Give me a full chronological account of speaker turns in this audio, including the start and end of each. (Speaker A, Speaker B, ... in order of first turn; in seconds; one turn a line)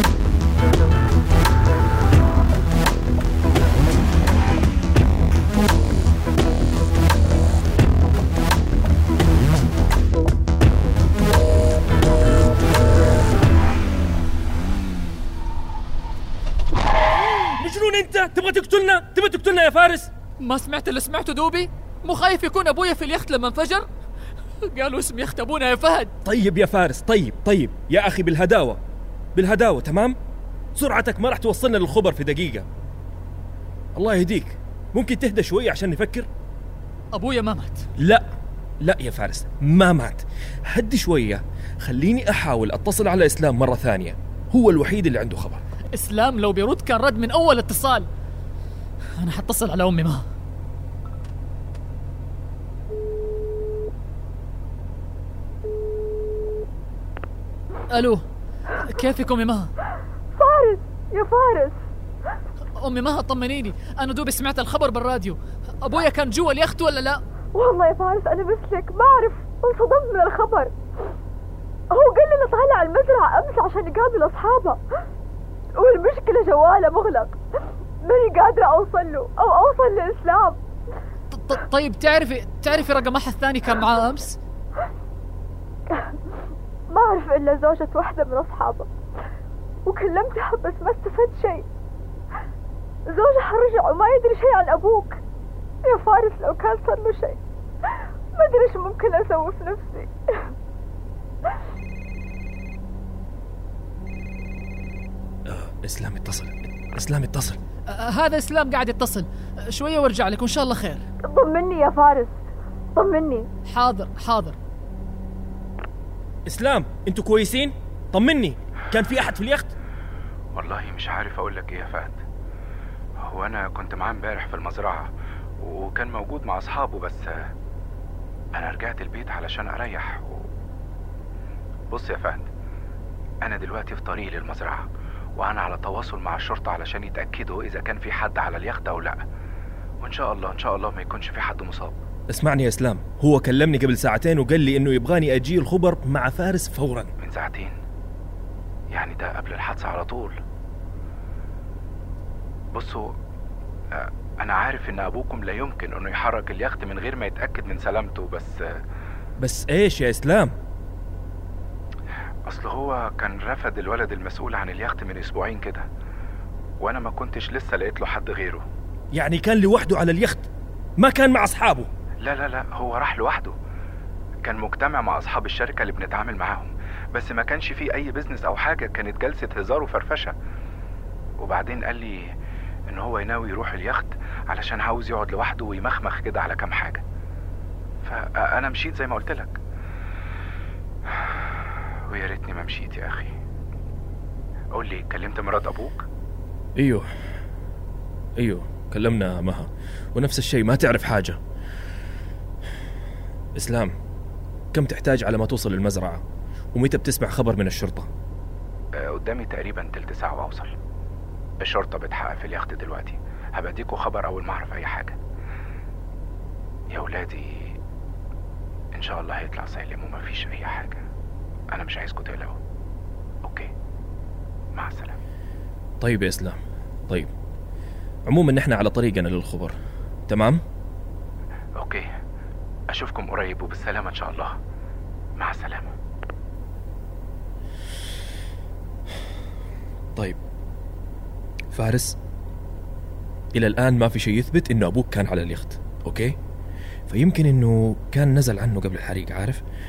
Speaker A: 17.2-20.1
Speaker B: 20.4-23.9
Speaker B: 24.6-26.1
Speaker A: 26.2-28.8
Speaker A: 29.3-30.1
Speaker A: 30.8-32.6
Speaker A: 34.0-36.3
Speaker B: 37.1-37.9
Speaker A: 38.0-45.6
Speaker B: 45.9-48.1
Speaker B: 49.1-50.2
Speaker B: 57.9-59.7
Speaker C: 60.4-61.8
Speaker B: 62.7-67.2
Speaker C: 67.5-70.7
Speaker C: 71.9-74.8
Speaker C: 75.8-77.3
Speaker C: 78.0-80.6
Speaker B: 81.3-84.4
Speaker C: 86.9-88.9
Speaker C: 89.8-91.7
Speaker C: 93.1-95.2
Speaker C: 95.8-97.4
Speaker C: 98.4-100.1
Speaker A: 105.5-107.6
Speaker B: 107.9-111.1
Speaker C: 111.2-112.4
Speaker C: 113.0-113.5
Speaker B: 113.7-114.6
Speaker A: 116.5-119.7
Speaker D: 120.5-122.2
Speaker D: 123.2-125.1
Speaker D: 125.6-127.3
Speaker D: 128.6-130.5
Speaker D: 131.9-132.5
Speaker D: 133.4-139.2
Speaker D: 140.0-141.9
Speaker A: 142.3-147.1
Speaker D: 147.2-147.7
Speaker D: 148.9-150.4
Speaker D: 152.7-153.0
Speaker D: 153.9-158.6
Speaker A: 159.4-160.5
Speaker D: 162.5-165.8
Speaker D: 166.8-168.6
Speaker A: 169.1-171.9
Speaker D: 172.2-173.5
Speaker D: 174.4-180.3
Speaker D: 181.4-182.2
Speaker D: 182.9-187.0
Speaker D: 188.0-189.6
Speaker D: 192.1-193.3
Speaker D: 194.7-196.0
Speaker A: 196.8-197.0
Speaker A: 198.4-201.4
Speaker A: 203.6-203.9
Speaker A: 204.7-206.2
Speaker A: 206.7-208.1
Speaker D: 209.0-210.7
Speaker D: 211.6-215.2
Speaker D: 216.9-217.7
Speaker D: 218.9-221.0
Speaker D: 221.7-222.6
Speaker D: 224.7-225.2
Speaker A: 226.0-226.6
Speaker A: 228.3-229.7
Speaker A: 230.3-230.6
Speaker D: 231.8-232.1
Speaker D: 232.9-234.5
Speaker D: 235.4-235.9
Speaker A: 241.7-242.2
Speaker A: 243.5-246.3
Speaker A: 247.1-249.6